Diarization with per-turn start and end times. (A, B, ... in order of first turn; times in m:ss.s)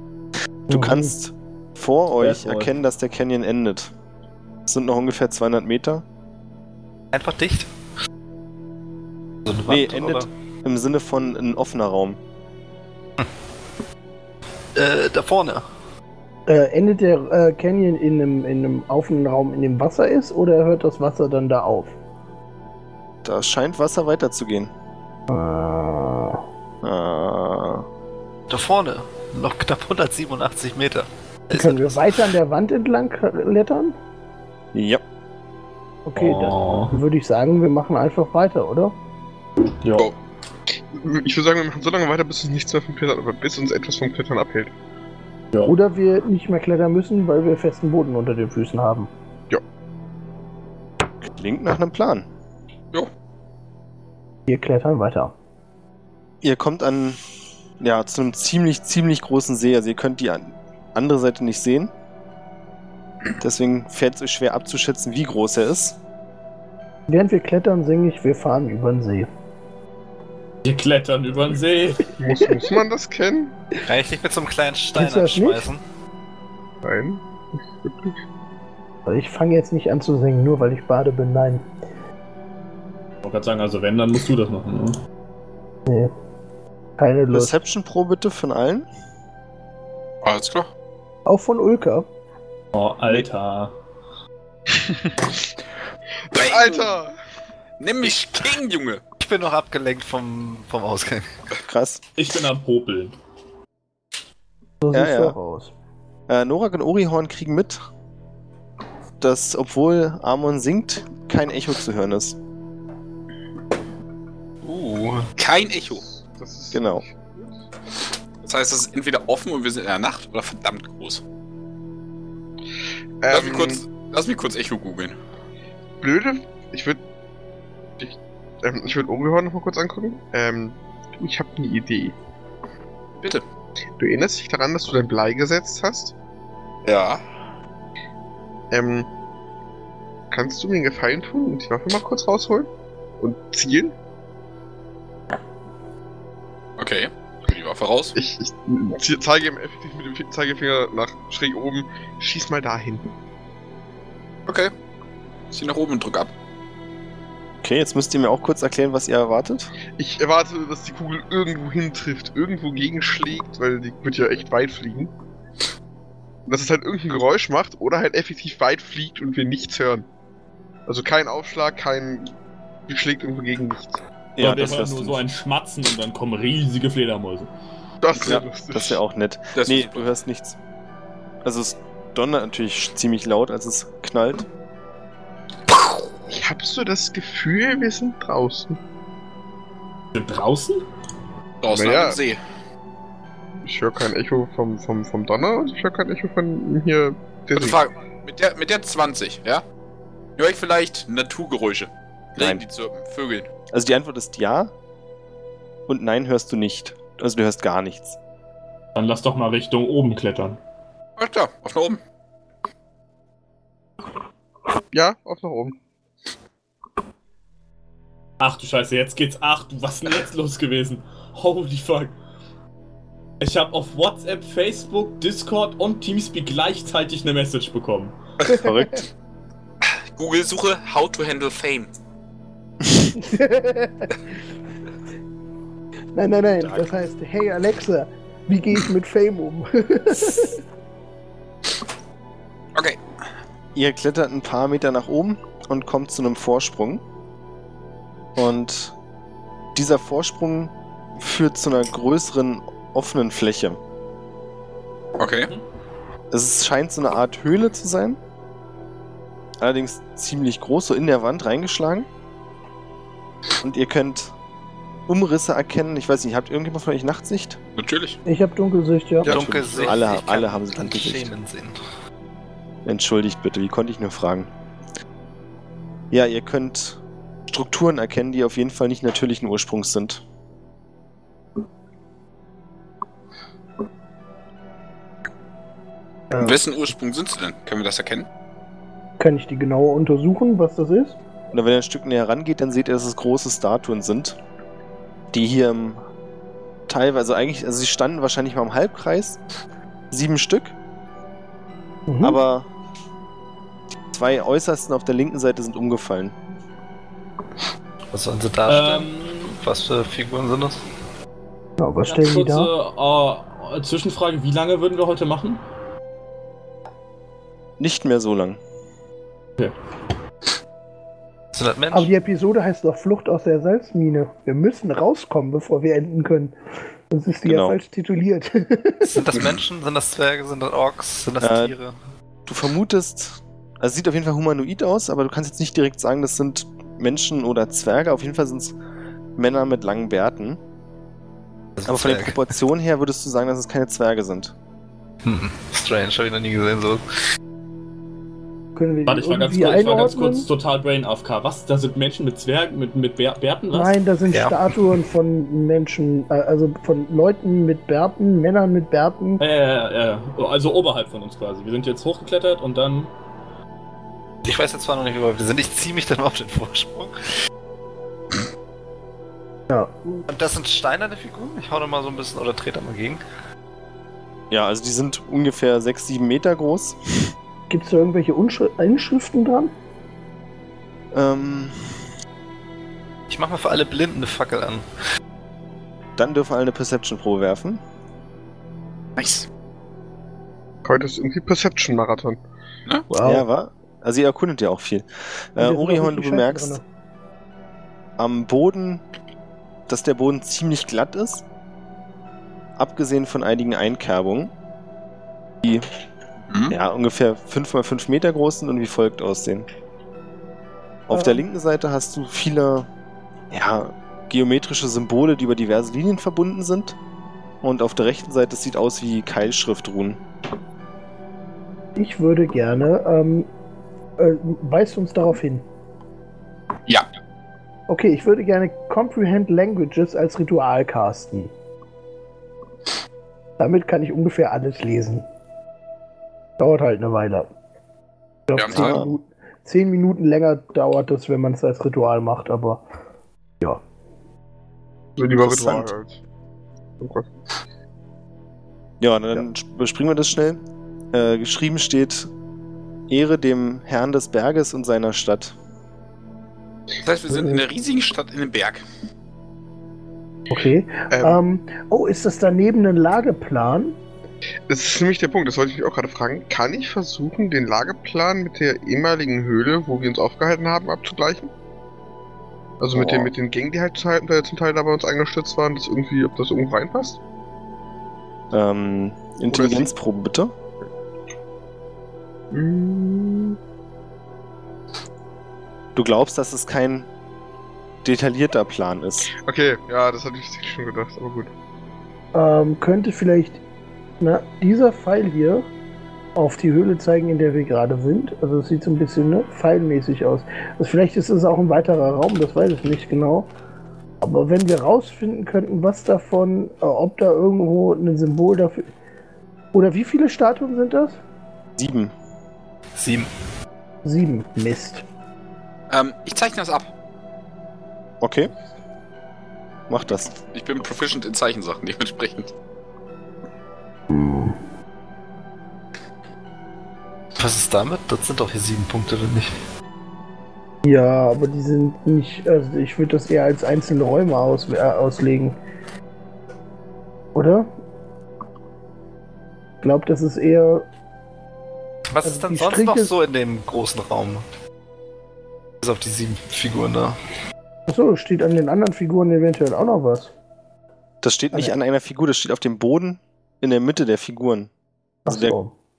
0:00.7-0:03.9 A
0:00.7-0:01.1 B
0:02.2-0:02.7 C
0:04.7-0:06.0 A
0:07.1-0:07.7 D
0:09.5-0:10.3 D
0:09.7-0:12.2 A
0:14.8-0:15.7 D
0:16.5-0:22.0 B
0:23.2-0:24.7 A
0:25.3-0:26.4 B
0:26.8-0:27.8 A
0:28.5-0:31.9 D
0:31.5-0:34.0 B
0:34.7-0:35.0 A
0:36.1-0:39.0 B
0:36.2-0:37.0 C
0:39.8-0:40.1 C
0:40.9-0:44.7 E
0:45.7-0:49.1 B
0:51.2-0:52.3 A
0:54.5-0:55.3 B
0:56.4-0:57.2 A
0:57.8-1:01.9 A
1:03.4-1:06.0 A
1:07.1-1:09.3 B
1:10.6-1:12.1 C
1:12.2-1:13.6 E
1:13.9-1:15.8 D
1:15.0-1:15.7 B
1:16.8-1:17.2 E
1:17.8-1:18.1 E
1:19.1-1:21.7 B
1:23.2-1:25.0 C
1:25.9-1:26.1 B
1:27.0-1:27.6 B
1:27.3-1:28.9 A
1:30.2-1:30.7 F
1:31.3-1:32.1 B
1:32.7-1:33.8 C
1:36.3-1:37.1 E
1:36.3-1:37.0 F
1:37.8-1:39.0 F
1:39.2-1:41.3 D
1:41.6-1:42.0 A
1:42.2-1:43.2 C
1:44.8-1:45.7 B
1:44.9-1:45.4 A
1:46.3-1:47.8 A
1:49.2-1:52.4 A
1:54.6-1:55.3 D
1:55.4-1:56.0 F
1:56.2-1:57.6 E
1:56.7-1:57.0 A
1:58.4-2:01.2 F
2:03.2-2:03.8 E
2:03.3-2:05.2 F
2:06.0-2:07.0 E
2:08.0-2:12.2 E
2:14.0-2:16.2 E
2:16.8-2:17.2 F
2:18.7-2:19.1 E
2:20.3-2:24.0 E
2:26.8-2:28.1 F
2:28.2-2:33.1 E
2:34.5-2:34.7 F
2:35.5-2:36.3 F
2:37.6-2:39.7 A
2:40.0-2:45.1 E
2:46.5-2:50.1 E
2:50.9-2:52.3 E
2:52.9-2:54.0 E
2:54.4-2:55.2 A
2:54.4-2:57.5 C
2:58.0-2:59.0 E
2:58.2-3:00.6 A
2:59.6-3:00.1 F
3:01.4-3:04.5 A
3:06.3-3:08.8 E
3:10.1-3:10.9 C
3:11.6-3:12.4 F
3:11.7-3:12.2 E
3:13.6-3:17.8 E
3:17.6-3:19.6 F
3:20.4-3:23.5 F
3:22.4-3:22.6 A
3:23.7-3:24.7 A
3:25.9-3:28.2 A
3:29.0-3:30.6 C
3:31.2-3:32.0 F
3:34.9-3:35.8 E
3:38.4-3:42.2 C
3:43.4-3:48.2 C
3:48.6-3:49.0 A
3:49.8-3:51.9 F
3:53.2-3:54.1 B
3:56.2-4:00.6 B
4:02.8-4:03.0 F
4:03.8-4:07.0 A
4:08.4-4:09.0 A
4:09.8-4:13.8 A
4:15.2-4:15.6 F
4:16.3-4:18.2 A
4:19.6-4:22.1 A
4:23.6-4:24.3 A
4:25.1-4:27.6 A
4:27.8-4:28.2 F
4:28.3-4:29.3 B
4:29.3-4:31.3 A
4:29.3-4:31.8 D
4:32.8-4:34.5 A
4:36.1-4:40.2 A
4:46.3-4:46.6 B
4:46.3-4:48.3 F
4:49.2-4:51.2 B
4:51.5-4:54.4 A
4:55.3-4:56.0 A
4:56.9-4:59.4 A
5:00.1-5:00.8 A
5:02.1-5:02.4 B
5:02.2-5:02.7 A
5:04.1-5:06.4 A
5:08.1-5:10.8 D
5:08.7-5:09.6 C
5:11.8-5:12.7 B
5:12.1-5:15.6 C
5:17.8-5:18.6 A
5:21.5-5:22.1 D
5:21.9-5:26.6 B
5:27.1-5:29.2 B
5:27.5-5:27.8 A
5:29.0-5:32.0 D
5:31.4-5:31.8 A
5:32.5-5:38.8 A
5:39.4-5:40.6 A
5:41.8-5:42.4 D
5:41.9-5:44.5 A
5:45.2-5:47.0 D
5:48.8-5:50.5 B
5:49.1-5:54.0 C
5:53.7-5:59.4 B
5:54.3-5:54.6 D
5:59.4-6:03.1 C
6:04.4-6:07.2 D
6:09.7-6:10.2 B
6:10.3-6:13.2 D
6:14.5-6:17.3 A
6:17.7-6:19.7 B
6:21.1-6:22.0 A
6:23.3-6:24.8 D
6:26.2-6:27.8 A
6:29.2-6:29.5 F
6:30.8-6:32.4 E
6:33.1-6:33.4 B
6:33.2-6:36.8 A
6:35.6-6:36.8 B
6:38.2-6:39.0 A
6:39.9-6:41.4 A
6:42.8-6:44.5 A
6:45.6-6:45.9 A
6:46.5-6:46.8 F
6:46.7-6:49.7 A
6:51.1-6:52.9 A
6:51.1-6:51.4 B
6:53.5-6:57.0 A
6:57.6-7:00.2 A
7:02.0-7:03.5 B
7:04.2-7:05.6 B
7:07.9-7:11.5 B
7:13.6-7:15.3 B
7:16.6-7:17.5 B
7:18.5-7:22.8 B
7:18.6-7:19.0 F
7:18.7-7:19.1 A
7:25.2-7:26.2 E
7:25.4-7:25.9 A
7:27.0-7:27.3 E
7:29.0-7:30.6 A
7:31.1-7:32.3 A
7:33.1-7:35.6 A
7:37.0-7:38.8 F
7:40.5-7:44.0 B
7:41.1-7:41.4 E
7:44.7-7:51.5 E
7:52.8-7:57.2 E
7:53.0-7:53.3 A
7:58.5-8:00.5 A
7:59.5-7:59.9 E
8:02.5-8:03.6 E
8:06.0-8:07.1 A
8:08.0-8:09.3 A
8:09.4-8:11.5 E
8:12.3-8:13.6 B
8:14.2-8:15.7 B
8:16.4-8:23.5 B
8:24.2-8:28.9 B
8:29.7-8:31.2 B
8:31.8-8:32.1 A
8:33.0-8:33.3 D
8:34.0-8:35.0 B
8:35.9-8:36.9 F
8:38.2-8:38.5 A
8:39.9-8:40.3 A
8:40.3-8:42.5 F
8:44.1-8:44.6 B
8:47.4-8:49.5 D
8:50.8-8:55.6 B
8:57.4-8:57.7 B
8:59.8-9:00.9 B
9:02.1-9:04.4 D
9:02.2-9:03.1 B
9:05.8-9:07.2 D
9:07.9-9:10.3 B
9:11.2-9:14.7 A
9:15.3-9:15.7 B
9:15.3-9:15.6 A